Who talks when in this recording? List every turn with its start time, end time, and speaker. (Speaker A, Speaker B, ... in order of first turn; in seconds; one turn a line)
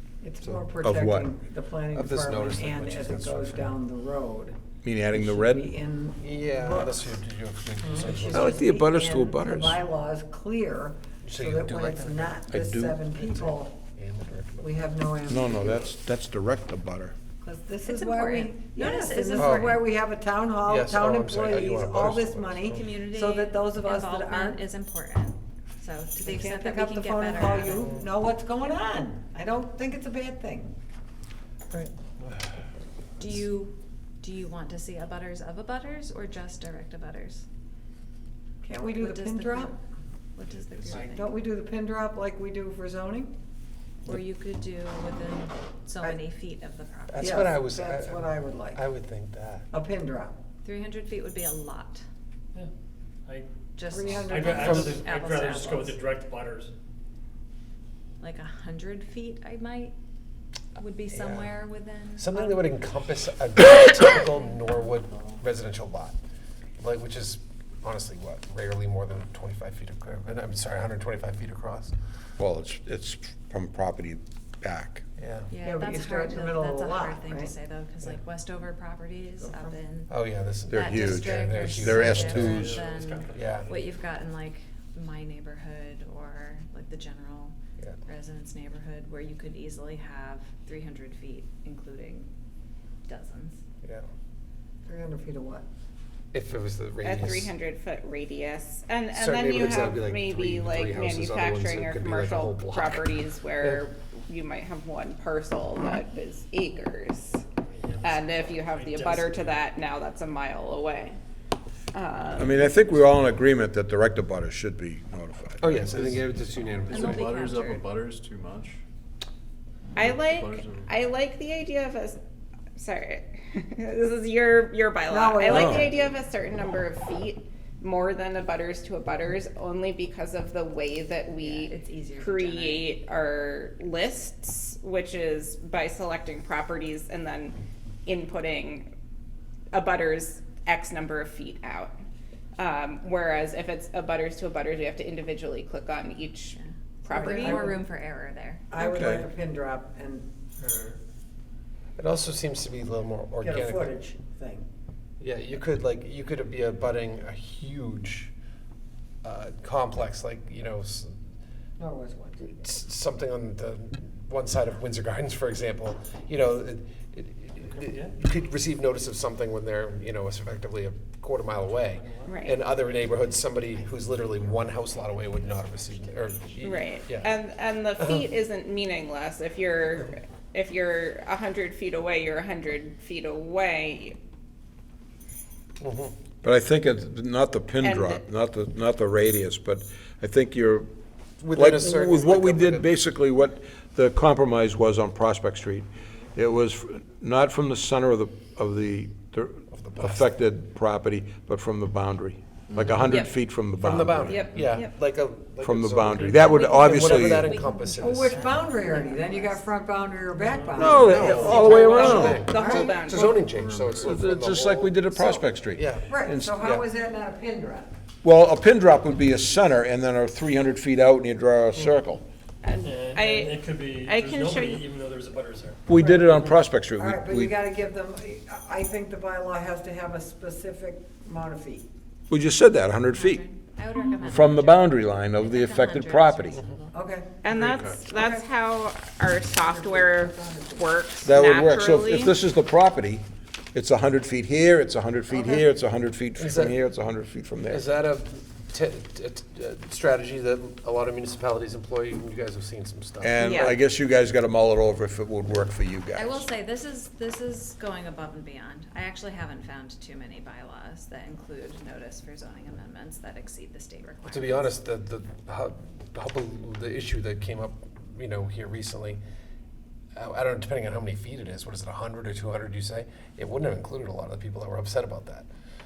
Speaker A: 0.2-4.5
Speaker B: 0.8-1.3
Speaker C: 1.9-3.7
Speaker B: 4.8-5.7
Speaker A: 5.1-7.1
Speaker C: 6.2-8.6
Speaker A: 7.8-13.7
Speaker B: 8.3-9.8
Speaker C: 11.2-12.4
Speaker B: 12.5-13.0
Speaker C: 13.2-14.6
Speaker A: 14.6-15.8
Speaker B: 15.3-17.1
Speaker A: 17.4-24.6
Speaker D: 17.8-19.8
Speaker C: 19.4-19.8
Speaker C: 20.6-22.8
Speaker D: 22.7-28.0
Speaker A: 26.2-30.7
Speaker D: 33.2-37.5
Speaker A: 38.6-39.7
Speaker D: 38.8-39.8
Speaker D: 40.3-41.3
Speaker A: 41.0-43.3
Speaker D: 44.0-47.4
Speaker C: 47.1-49.7
Speaker A: 47.2-48.8
Speaker A: 49.7-50.4
Speaker D: 50.6-52.0
Speaker D: 53.8-56.0
Speaker A: 53.9-55.0
Speaker E: 54.2-56.7
Speaker C: 54.5-55.0
Speaker D: 58.2-59.9
Speaker D: 60.8-62.9
Speaker C: 61.1-61.5
Speaker C: 62.2-66.2
Speaker D: 64.1-65.4
Speaker C: 66.8-71.9
Speaker B: 72.4-75.0
Speaker C: 75.2-75.5
Speaker D: 75.5-92.3
Speaker A: 75.6-77.5
Speaker A: 79.4-79.8
Speaker C: 80.1-82.8
Speaker B: 80.7-82.8
Speaker E: 82.3-83.6
Speaker C: 83.3-83.7
Speaker D: 93.1-93.6
Speaker A: 94.9-95.6
Speaker C: 96.3-97.5
Speaker F: 97.0-107.4
Speaker C: 99.1-103.1
Speaker E: 107.8-109.6
Speaker F: 108.0-111.2
Speaker F: 111.9-112.7
Speaker B: 112.3-115.8
Speaker C: 115.6-117.2
Speaker G: 115.7-118.8
Speaker D: 116.9-117.9
Speaker G: 120.0-120.9
Speaker F: 120.0-122.2
Speaker F: 122.8-138.9
Speaker A: 125.1-125.9
Speaker C: 125.5-125.9
Speaker D: 131.4-132.9
Speaker F: 139.7-141.9
Speaker F: 142.6-147.6
Speaker D: 146.5-148.7
Speaker A: 147.1-147.8
Speaker A: 148.7-150.3
Speaker B: 148.8-149.2
Speaker C: 150.6-150.9
Speaker C: 152.0-153.9
Speaker A: 153.4-154.6
Speaker C: 155.2-158.3
Speaker C: 159.2-161.2
Speaker A: 161.8-162.4
Speaker C: 162.4-177.3
Speaker E: 167.8-168.1
Speaker E: 171.9-172.3
Speaker F: 172.2-172.6
Speaker F: 176.6-184.2
Speaker C: 178.0-178.3
Speaker C: 185.8-186.1
Speaker B: 186.4-190.9
Speaker F: 187.8-188.2
Speaker C: 191.4-192.9
Speaker B: 191.5-204.3
Speaker C: 199.7-200.3
Speaker G: 202.7-203.1
Speaker F: 203.1-203.3
Speaker C: 203.8-208.5
Speaker G: 204.3-204.8
Speaker F: 204.3-204.9
Speaker B: 205.6-207.5
Speaker D: 206.3-209.8
Speaker A: 208.0-213.0
Speaker E: 210.5-211.7
Speaker B: 210.7-212.5
Speaker C: 211.0-216.8
Speaker F: 211.2-213.4
Speaker G: 212.2-214.2
Speaker B: 214.0-216.6
Speaker A: 216.1-217.9
Speaker B: 218.2-222.2
Speaker F: 222.6-224.9
Speaker E: 222.8-225.8
Speaker B: 225.8-227.5
Speaker A: 225.9-226.4
Speaker A: 227.0-231.8
Speaker B: 232.3-233.4
Speaker D: 233.1-237.0
Speaker B: 234.2-236.6
Speaker A: 236.9-237.3
Speaker F: 237.4-242.3
Speaker G: 237.5-238.1
Speaker A: 238.1-238.4
Speaker A: 239.6-240.8
Speaker B: 241.2-247.8
Speaker A: 245.3-245.6
Speaker C: 246.3-246.8
Speaker C: 247.7-253.8
Speaker B: 253.2-256.4
Speaker F: 253.4-253.7
Speaker D: 256.1-264.7
Speaker C: 264.2-269.2
Speaker C: 270.1-275.5